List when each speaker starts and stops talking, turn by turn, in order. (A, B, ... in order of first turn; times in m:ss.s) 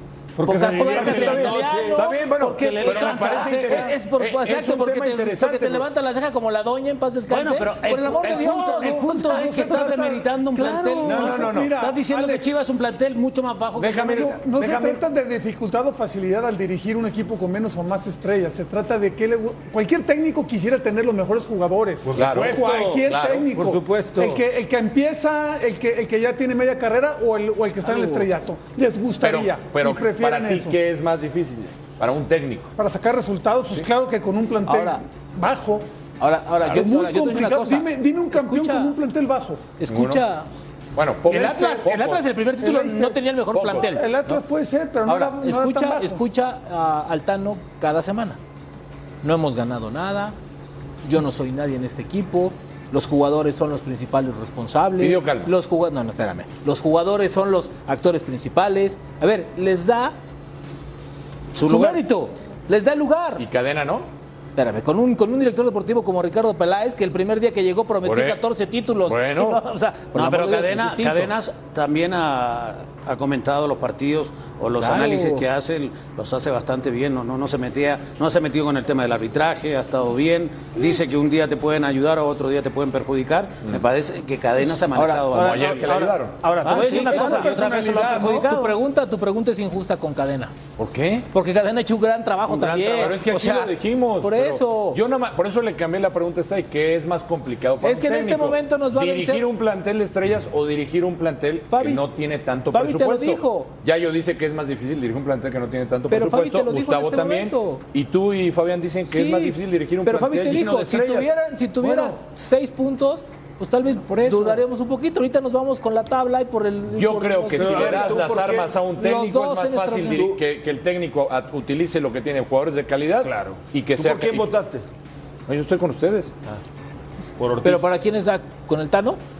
0:00.4-0:02.0 A
0:00.4-0:09.6 B
0:00.7-0:05.9 C
0:02.6-0:03.9 D
0:07.3-0:14.3 D
0:08.1-0:10.3 E
0:10.6-0:11.3 B
0:11.0-0:12.4 E
0:11.0-0:11.8 C
0:13.8-0:15.0 C
0:14.0-0:30.8 E
0:22.0-0:24.4 A
0:22.2-0:23.4 C
0:27.8-0:28.3 B
0:29.2-0:32.7 C
0:32.8-0:35.9 E
0:34.7-0:35.0 B
0:36.2-0:39.0 B
0:36.7-0:39.7 E
0:39.8-0:40.5 B
0:39.9-0:40.2 C
0:41.0-0:42.3 C
0:41.3-0:44.4 B
0:41.3-0:41.9 E
0:42.6-0:43.2 E
0:43.5-0:43.9 C
0:43.9-0:46.2 E
0:45.1-0:48.4 B
0:49.2-0:50.4 B
0:51.0-1:00.2 B
0:55.0-0:55.5 C
1:01.5-1:02.0 D
1:01.6-1:03.4 B
1:03.4-1:04.1 C
1:04.6-1:11.4 B
1:08.0-1:08.4 C
1:09.0-1:09.6 C
1:10.1-1:28.8 D
1:14.8-1:15.4 B
1:24.9-1:26.1 B
1:25.3-1:26.4 C
1:26.4-1:27.3 A
1:26.6-1:30.6 B
1:26.8-1:28.5 E
1:30.8-1:31.3 C
1:31.3-1:35.0 B
1:32.5-1:33.2 D
1:32.9-1:52.2 C
1:37.8-1:39.5 B
1:41.7-1:42.0 B
1:42.7-1:43.7 B
1:46.1-1:47.8 B
1:49.1-1:58.3 B
1:54.1-1:54.6 C
1:56.9-2:04.5 C
1:57.6-1:58.8 A
1:59.0-2:00.3 B
2:00.1-2:00.4 A
2:03.2-2:04.9 A
2:05.5-2:06.3 C
2:07.4-2:07.9 A
2:07.6-2:09.2 B